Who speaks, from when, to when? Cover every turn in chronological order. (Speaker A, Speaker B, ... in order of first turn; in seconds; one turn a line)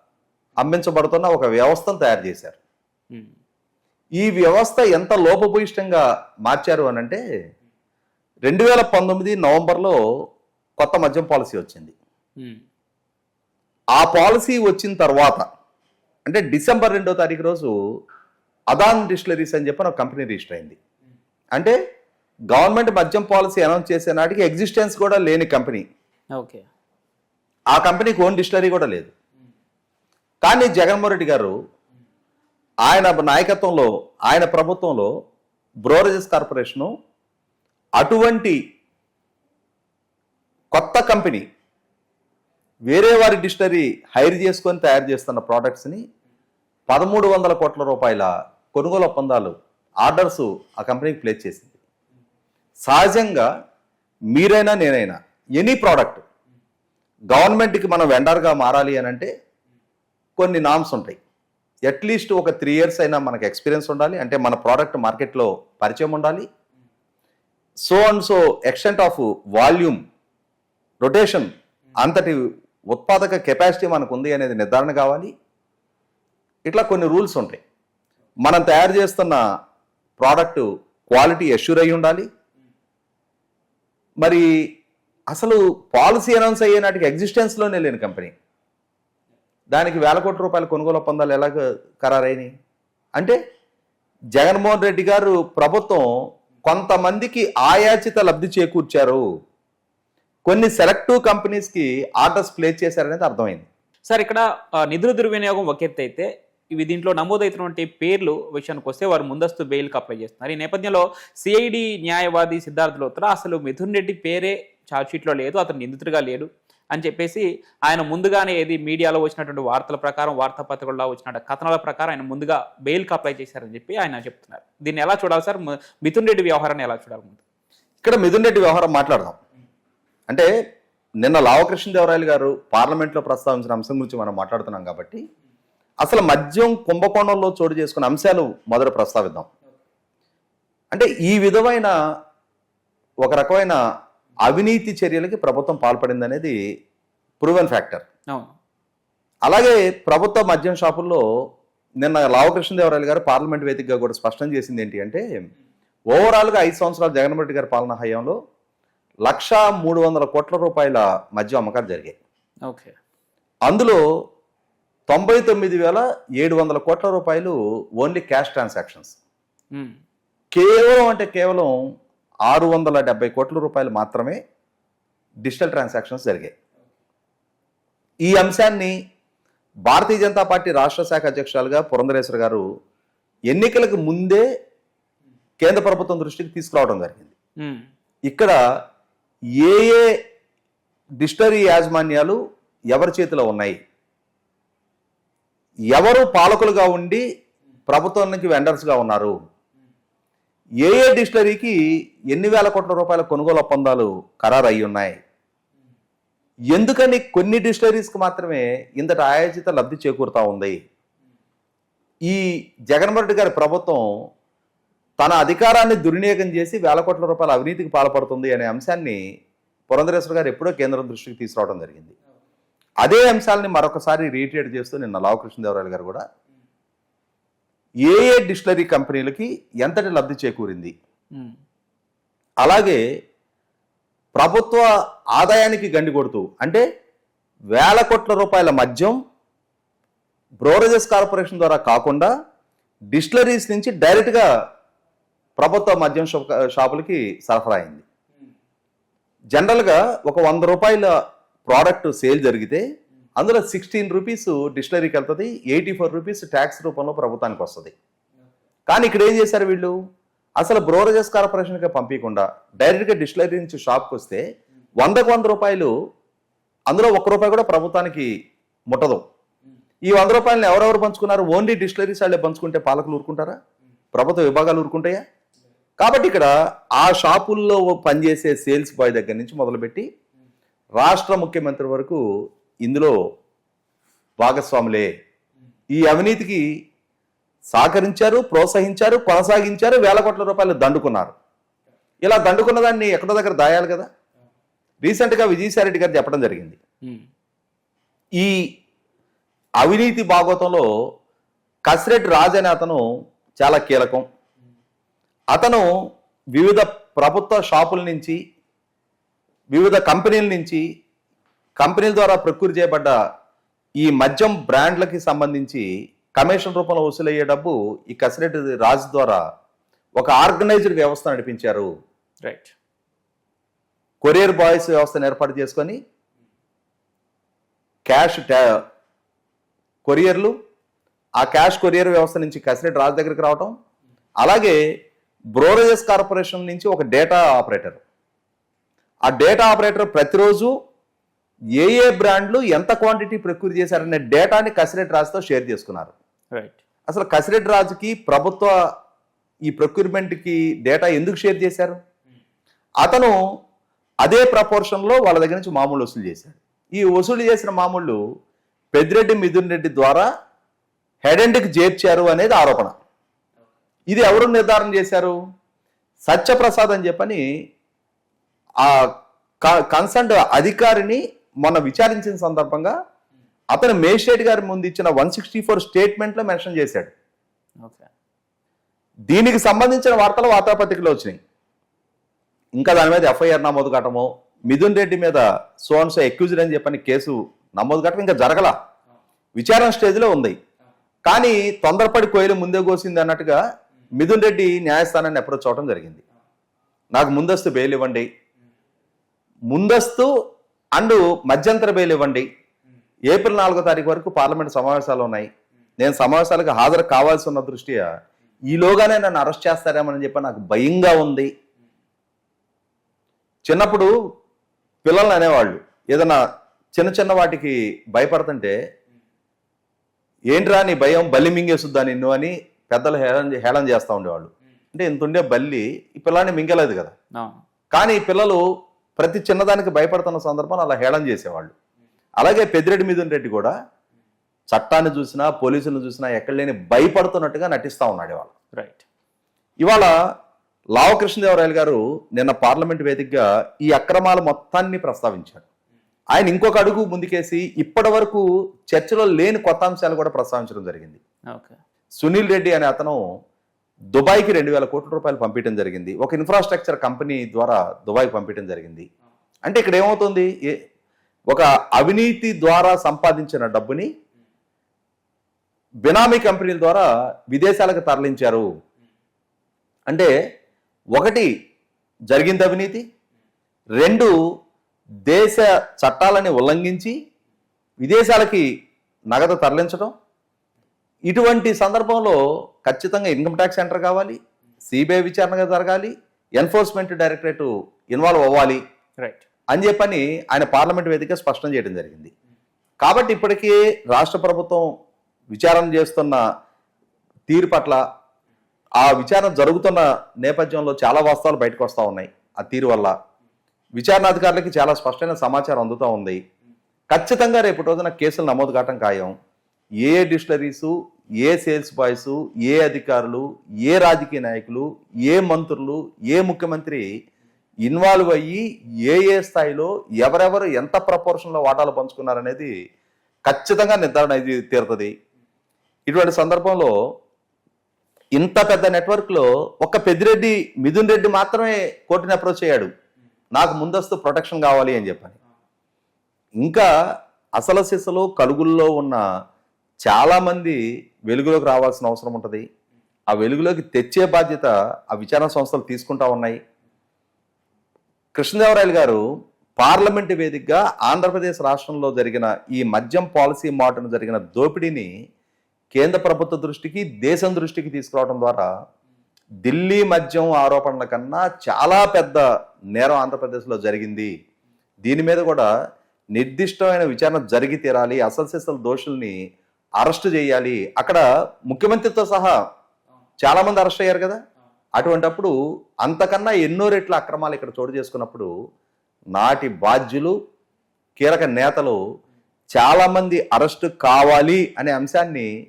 Speaker A: 0.6-2.6
Speaker A: 4.2-7.2
Speaker A: 8.4-9.9
Speaker A: 10.8-11.9
Speaker A: 13.9-15.5
Speaker A: 16.2-17.7
Speaker A: 18.7-20.8
Speaker A: 22.5-25.8
Speaker B: 26.4-26.6
Speaker A: 27.7-29.1
Speaker A: 30.4-31.5
Speaker A: 32.9-35.1
Speaker A: 35.8-36.9
Speaker A: 38.0-38.6
Speaker A: 40.7-41.5
Speaker A: 42.9-46.0
Speaker A: 46.9-51.8
Speaker A: 52.9-53.5
Speaker A: 54.3-56.2
Speaker A: 57.3-59.3
Speaker A: 60.4-61.2
Speaker A: 61.9-66.4
Speaker A: 67.9-70.0
Speaker A: 71.0-75.3
Speaker A: 76.7-77.6
Speaker A: 78.4-79.4
Speaker A: 80.2-82.2
Speaker A: 84.2-84.5
Speaker A: 85.3-88.3
Speaker A: 89.7-92.5
Speaker A: 94.3-96.0
Speaker A: 96.6-99.2
Speaker A: 100.5-103.7
Speaker B: 104.1-127.4
Speaker A: 128.0-129.3
Speaker A: 131.2-135.2
Speaker A: 136.0-139.5
Speaker A: 140.9-141.9
Speaker A: 143.2-143.8
Speaker A: 144.4-146.6
Speaker A: 147.4-148.0
Speaker A: 149.4-151.2
Speaker A: 152.0-155.2
Speaker A: 156.1-158.3
Speaker A: 159.2-162.2
Speaker B: 162.7-162.9
Speaker A: 163.7-164.0
Speaker A: 165.1-169.2
Speaker B: 169.7-170.0
Speaker A: 170.5-171.7
Speaker A: 172.5-174.4
Speaker A: 175.4-176.5
Speaker A: 178.2-178.9
Speaker A: 179.8-182.6
Speaker A: 183.5-184.4
Speaker A: 185.6-187.3
Speaker B: 187.6-187.9
Speaker A: 188.3-188.6
Speaker A: 189.6-190.1
Speaker A: 191.2-192.4
Speaker A: 192.9-193.8
Speaker A: 195.9-197.2
Speaker A: 197.9-199.4
Speaker A: 200.8-201.8
Speaker A: 202.3-205.2
Speaker A: 206.7-210.8
Speaker A: 212.2-214.1
Speaker A: 215.2-219.2
Speaker A: 219.9-222.1
Speaker A: 223.0-226.2
Speaker A: 228.1-230.9
Speaker A: 232.6-233.0
Speaker A: 234.3-236.8
Speaker A: 237.7-239.1
Speaker A: 240.6-242.3
Speaker A: 243.1-244.4
Speaker A: 245.6-248.0
Speaker A: 249.5-251.1
Speaker A: 251.7-252.8
Speaker A: 253.4-257.9
Speaker A: 258.9-259.9
Speaker A: 260.6-264.4
Speaker A: 265.0-265.9
Speaker A: 266.9-268.3
Speaker A: 268.9-269.2
Speaker A: 270.1-273.6
Speaker A: 274.1-275.2
Speaker A: 276.0-280.0
Speaker A: 281.0-282.2
Speaker A: 282.8-283.1
Speaker A: 284.4-285.1
Speaker A: 285.9-286.6
Speaker A: 287.7-291.3
Speaker A: 292.2-294.1
Speaker A: 295.0-296.8
Speaker A: 298.4-298.6
Speaker A: 299.8-300.9
Speaker A: 301.9-303.0
Speaker A: 303.6-304.2
Speaker A: 305.5-305.9
Speaker A: 306.5-308.4
Speaker A: 309.7-310.8
Speaker A: 311.8-313.1
Speaker A: 314.0-315.9
Speaker A: 316.4-319.4
Speaker A: 320.2-321.9
Speaker B: 322.4-322.7
Speaker A: 324.2-325.9
Speaker A: 328.1-328.8
Speaker A: 330.1-330.5
Speaker A: 331.4-333.7
Speaker A: 334.4-334.8
Speaker A: 335.5-338.0
Speaker A: 339.2-340.7
Speaker A: 341.8-346.1
Speaker A: 347.1-348.7
Speaker A: 349.7-352.0
Speaker A: 353.0-353.4
Speaker A: 354.2-358.2
Speaker A: 358.9-360.3
Speaker A: 361.2-362.9
Speaker A: 364.1-365.4
Speaker A: 366.3-367.4
Speaker A: 368.8-372.9
Speaker A: 373.7-377.1
Speaker B: 377.8-378.1
Speaker A: 379.3-381.4
Speaker A: 382.8-388.7
Speaker A: 389.6-390.6
Speaker A: 391.2-393.6
Speaker A: 394.2-396.2
Speaker A: 397.1-398.2
Speaker A: 399.7-400.3
Speaker A: 400.9-402.4
Speaker A: 403.3-405.5
Speaker A: 406.0-408.1
Speaker A: 408.7-411.5
Speaker A: 413.6-414.1
Speaker A: 415.0-416.4
Speaker A: 416.9-418.8
Speaker A: 420.5-427.1
Speaker B: 427.3-427.6
Speaker A: 427.9-428.6
Speaker A: 429.2-431.7
Speaker A: 432.4-433.7
Speaker A: 434.7-438.5
Speaker B: 438.8-439.0
Speaker A: 439.8-440.1
Speaker A: 440.9-445.6
Speaker A: 446.3-451.2
Speaker B: 451.5-451.8
Speaker A: 452.2-453.2
Speaker A: 454.1-459.1
Speaker A: 459.6-460.7
Speaker A: 461.5-464.1
Speaker A: 466.0-468.7
Speaker A: 471.1-471.5
Speaker A: 472.3-473.0
Speaker A: 474.0-474.3
Speaker A: 475.3-477.1
Speaker A: 478.0-478.6
Speaker A: 479.3-480.1
Speaker A: 481.3-488.8
Speaker A: 489.7-492.3
Speaker A: 493.0-494.9
Speaker A: 495.5-496.4
Speaker A: 497.5-498.0
Speaker A: 499.0-503.1
Speaker A: 503.9-506.4
Speaker A: 507.1-509.3
Speaker A: 510.0-517.0
Speaker A: 517.9-522.7
Speaker A: 523.5-525.1
Speaker A: 526.1-526.9
Speaker A: 528.4-532.9
Speaker A: 533.5-535.4
Speaker A: 536.6-536.9
Speaker A: 537.6-539.2
Speaker A: 540.0-542.6
Speaker A: 543.3-546.6
Speaker A: 548.3-549.2
Speaker A: 549.8-555.1
Speaker A: 555.9-558.7
Speaker A: 559.6-562.4
Speaker A: 562.9-564.3
Speaker A: 565.0-565.7
Speaker A: 566.4-569.4
Speaker A: 570.0-572.5
Speaker A: 573.4-574.4
Speaker A: 575.0-575.5
Speaker A: 576.0-578.5
Speaker A: 579.3-580.3
Speaker A: 581.2-582.0
Speaker A: 582.7-585.5